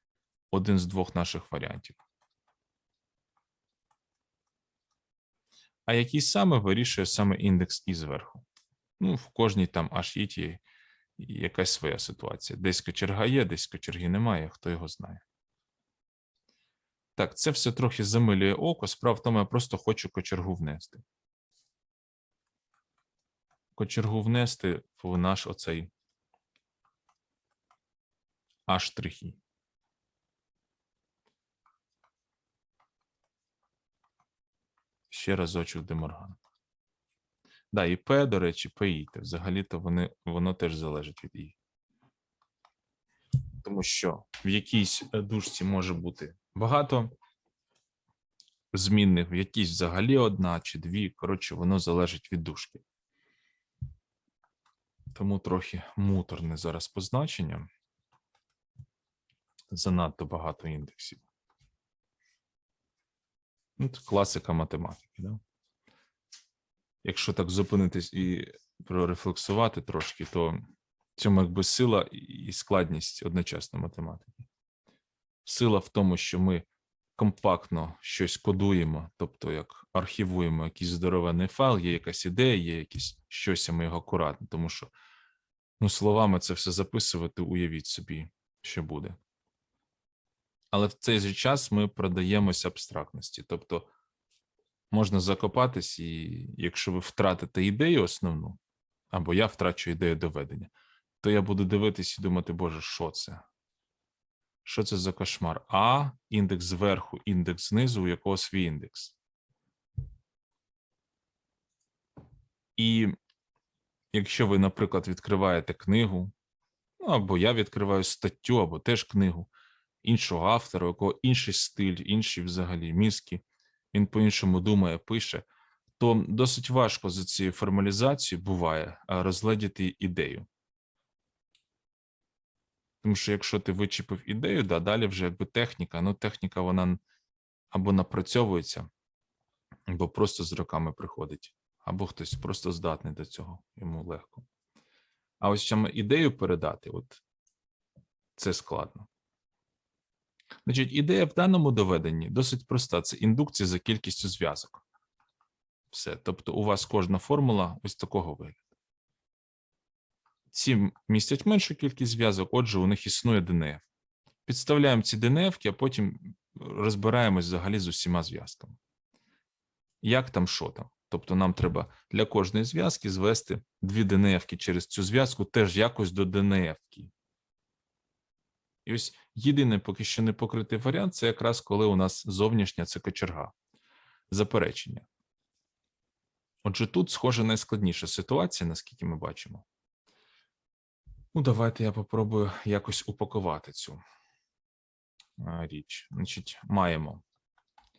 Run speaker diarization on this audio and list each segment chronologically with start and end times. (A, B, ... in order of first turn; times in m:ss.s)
0:00.5-0:02.0 A
0:05.9-0:08.4 A
0:09.0-0:10.6 A
0:11.2-0:15.2 A
0:17.2-0:21.0 A
0:23.8-0:25.9 A
0:28.7-0:29.4 A
0:35.1-0:36.4 A
0:37.7-0:41.6 A
0:43.6-0:47.1 A
0:48.7-0:52.8 A
0:55.1-0:57.7 A
0:59.7-1:01.2 A
1:03.8-1:05.4 A
1:07.0-1:10.6 A
1:11.2-1:14.5 A
1:15.4-1:24.9 A
1:25.8-1:29.2 A
1:30.7-1:33.9 A
1:34.9-1:38.6 A
1:39.1-1:43.4 A
1:44.6-1:49.2 A
1:52.8-1:53.2 A
1:54.1-1:56.3 A
1:57.0-1:59.5 A
2:00.0-2:05.4 A
2:06.0-2:10.5 A
2:13.0-2:17.0 A
2:17.7-2:18.9 A
2:19.9-2:24.4 A
2:25.4-2:27.2 A
2:28.4-2:29.1 A
2:30.6-2:34.8 A
2:35.9-2:38.6 A
2:40.5-2:43.8 A
2:44.4-2:48.8 A
2:50.0-2:57.1 A
2:58.8-3:03.5 A
3:04.3-3:05.1 A
3:06.6-3:09.6 A
3:11.3-3:14.0 A
3:15.4-3:17.2 A